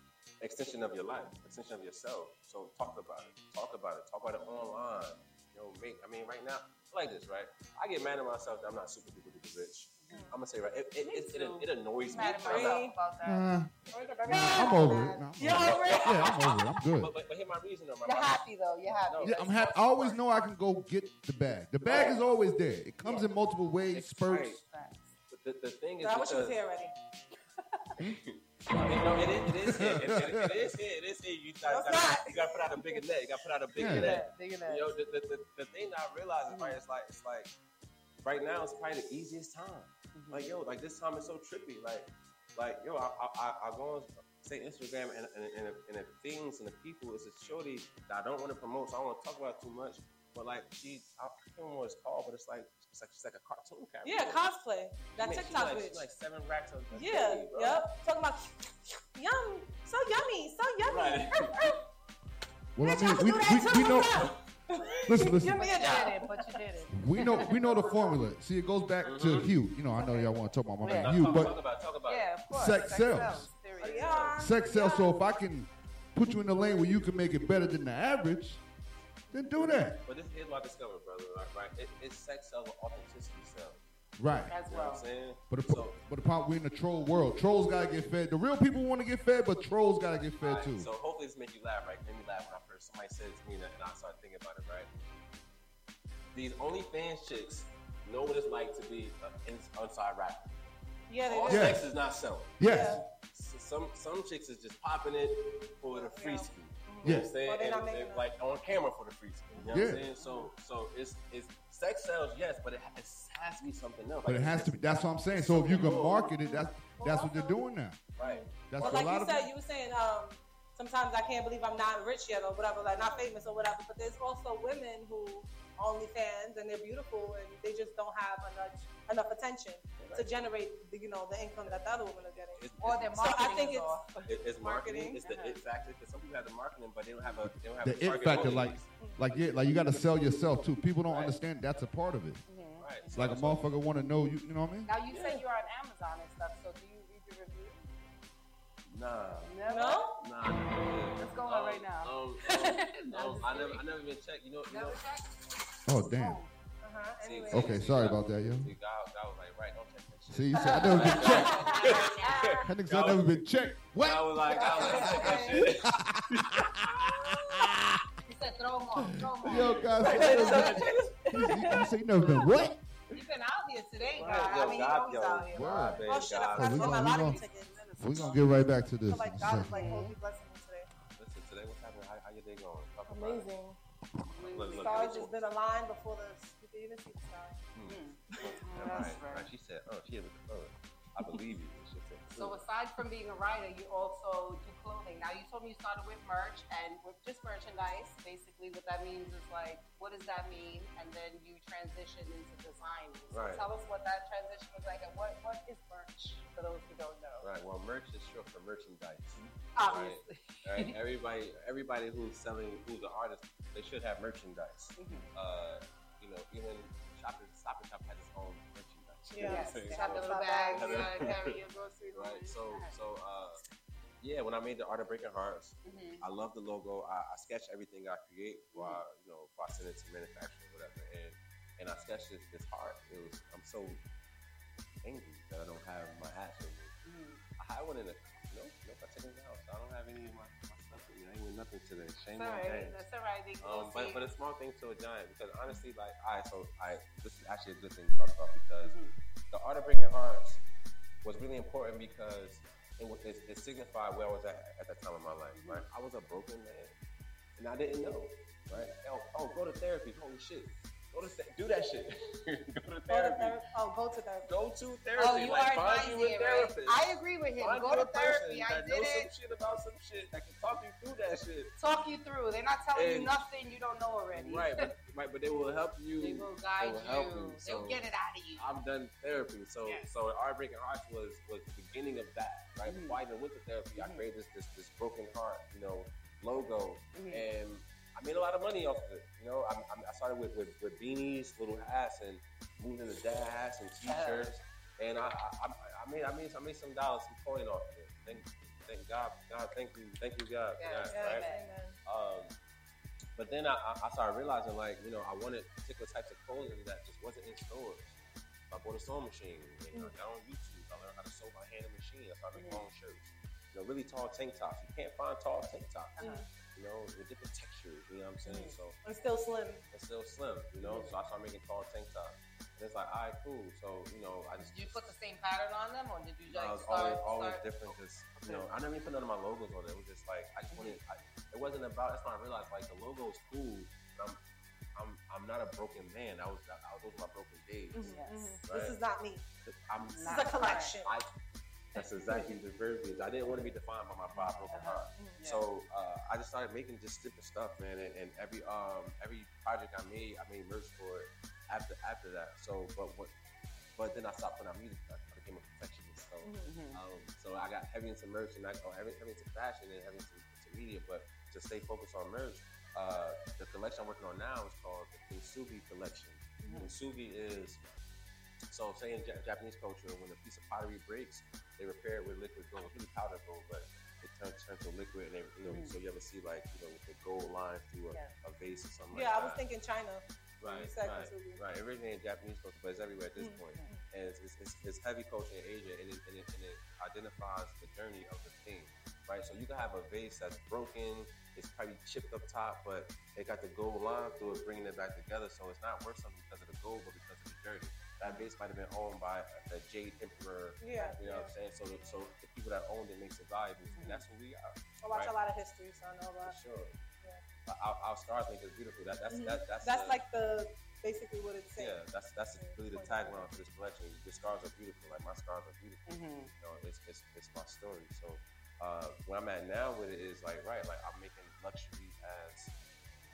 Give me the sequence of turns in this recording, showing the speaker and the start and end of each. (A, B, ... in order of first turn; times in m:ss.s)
0:00.4-0:12.9 A
0:10.0-0:10.3 B
0:10.1-0:10.4 C
0:11.0-0:13.5 B
0:12.1-0:13.0 C
0:13.2-0:13.7 D
0:13.9-0:16.3 C
0:13.9-0:14.5 A
0:14.3-0:15.6 B
0:14.3-0:17.1 D
0:15.4-0:18.5 A
0:18.0-0:19.4 B
0:19.1-0:20.5 A
0:19.2-0:24.6 D
0:21.8-0:22.2 A
0:23.9-0:24.6 A
0:24.6-0:25.2 B
0:25.3-0:26.6 A
0:26.0-0:27.0 C
0:28.1-0:37.5 A
0:29.5-0:30.7 D
0:31.7-0:33.1 C
0:33.8-0:34.2 D
0:33.8-0:34.9 B
0:36.5-0:36.8 B
0:38.2-0:54.4 A
0:40.2-0:40.5 B
0:54.0-0:56.1 C
0:55.2-0:57.9 A
0:56.9-1:01.8 C
1:00.9-1:01.7 A
1:02.8-1:04.3 D
1:02.8-1:06.6 C
1:05.1-1:05.8 D
1:05.4-1:07.9 B
1:06.9-1:11.6 D
1:07.3-1:08.2 C
1:09.0-1:09.5 A
1:09.9-1:11.5 B
1:10.9-1:12.3 A
1:12.1-1:14.9 B
1:12.5-1:13.5 D
1:13.8-1:15.2 C
1:13.8-1:14.4 A
1:14.4-1:18.6 D
1:19.3-1:20.0 D
1:20.0-1:23.8 A
1:24.2-1:24.5 D
1:24.5-1:25.1 B
1:24.7-1:26.0 A
1:25.5-1:30.9 D
1:30.4-1:34.9 A
1:36.3-1:40.5 A
1:41.1-1:41.8 C
1:41.3-1:56.4 A
1:41.5-1:41.8 D
1:42.6-1:43.0 D
1:42.6-1:43.0 C
1:45.9-1:48.3 C
1:47.0-1:47.3 D
1:49.6-1:49.8 C
1:49.7-1:50.0 D
1:50.2-1:50.5 B
1:54.2-1:58.0 D
1:56.4-2:15.2 C
1:58.2-1:59.2 A
1:58.7-1:59.5 D
2:10.0-2:10.4 A
2:11.6-2:13.6 A
2:12.8-2:14.1 B
2:14.3-2:18.9 A
2:15.2-2:15.6 B
2:17.4-2:22.4 D
2:19.0-2:19.2 C
2:19.7-2:20.2 A
2:21.0-2:21.4 A
2:22.5-2:23.2 B
2:22.8-2:23.7 A
2:23.1-2:24.9 D
2:24.9-2:28.0 B
2:25.1-2:25.4 A
2:28.9-2:29.6 A
2:29.5-2:30.1 B
2:29.7-2:30.2 C
2:30.2-2:35.0 A
2:31.2-2:33.8 B
2:34.7-2:36.5 B
2:35.9-2:36.4 D
2:36.8-2:37.8 C
2:37.2-2:47.4 A
2:37.5-2:38.7 D
2:40.3-2:41.6 D
2:40.5-2:42.7 B
2:41.1-2:42.3 C
2:42.6-2:47.9 D
2:44.5-2:45.7 C
2:44.6-2:45.4 B
2:48.3-2:50.7 B
2:49.0-2:52.8 D
2:49.8-2:51.0 A
2:50.0-2:52.5 C
2:53.1-2:56.2 B
2:54.2-2:57.2 A
2:55.5-2:57.4 D
2:56.0-3:00.9 C
2:57.0-2:57.5 B
2:58.0-2:59.8 D
2:59.7-3:00.2 B
3:01.2-3:03.5 A
3:03.1-3:03.8 C
3:04.3-3:05.3 B
3:04.4-3:05.4 A
3:04.6-3:07.6 C
3:07.7-3:12.6 A
3:07.9-3:09.5 B
3:12.4-3:27.5 B
3:23.3-3:23.7 A
3:27.4-3:41.6 A
3:29.7-3:31.0 B
3:35.0-3:35.3 B
3:39.3-3:41.1 C
3:39.4-3:42.9 B
3:42.1-3:43.6 A
3:44.2-3:54.0 A
3:45.8-3:46.3 B
3:48.7-3:49.0 B
3:55.0-3:56.9 A
3:57.0-3:57.4 B
3:57.6-4:03.0 A
4:02.3-4:04.3 B
4:03.6-4:09.0 A
4:08.8-4:09.1 B
4:09.5-4:10.6 A
4:11.2-4:16.9 A
4:15.5-4:15.8 B
4:17.6-4:23.6 A
4:23.1-4:24.5 C
4:24.5-4:31.7 A
4:25.2-4:29.3 B
4:31.8-4:34.9 B
4:32.9-4:33.4 A
4:34.4-4:38.0 A
4:36.2-4:38.7 B
4:38.6-5:01.5 A
4:42.9-4:43.2 B
4:44.0-4:44.3 B
4:47.1-4:47.5 B
4:54.0-4:54.6 B
5:00.8-5:01.7 B
5:01.1-5:02.0 C
5:02.1-5:02.6 A
5:03.4-5:08.2 A
5:08.7-5:16.2 A
5:12.6-5:12.8 B
5:16.2-5:16.5 B
5:16.2-5:16.5 C
5:16.7-5:19.0 A
5:18.4-5:18.8 B
5:19.0-5:19.8 C
5:19.9-5:25.0 A
5:20.8-5:21.2 B
5:24.6-5:27.7 B
5:26.5-5:34.4 A
5:28.4-5:28.7 B
5:30.7-5:31.0 B
5:35.0-5:38.1 A
5:37.9-5:39.4 C
5:38.0-5:38.5 B
5:38.7-5:39.0 A
5:39.6-5:40.5 A
5:40.1-5:41.0 B
5:40.2-5:41.1 C
5:41.0-5:41.3 A
5:41.9-5:53.3 A
5:44.4-5:45.6 B
5:45.2-5:45.4 C
5:54.0-6:08.0 A
5:56.4-5:56.7 C
5:56.7-5:57.0 B
6:06.6-6:06.9 C
6:06.7-6:06.9 B
6:08.7-6:19.6 A
6:15.7-6:16.0 B
6:19.1-6:21.6 C
6:20.6-6:45.4 A
6:23.4-6:24.0 C
6:40.8-6:42.3 C
6:43.8-6:44.1 C
6:44.0-6:44.2 B
6:45.0-6:46.6 C
6:46.4-6:47.0 A
6:47.6-6:50.2 A
6:49.3-6:52.0 C
6:51.8-7:02.8 A
6:52.6-6:53.5 C
6:56.1-6:56.5 B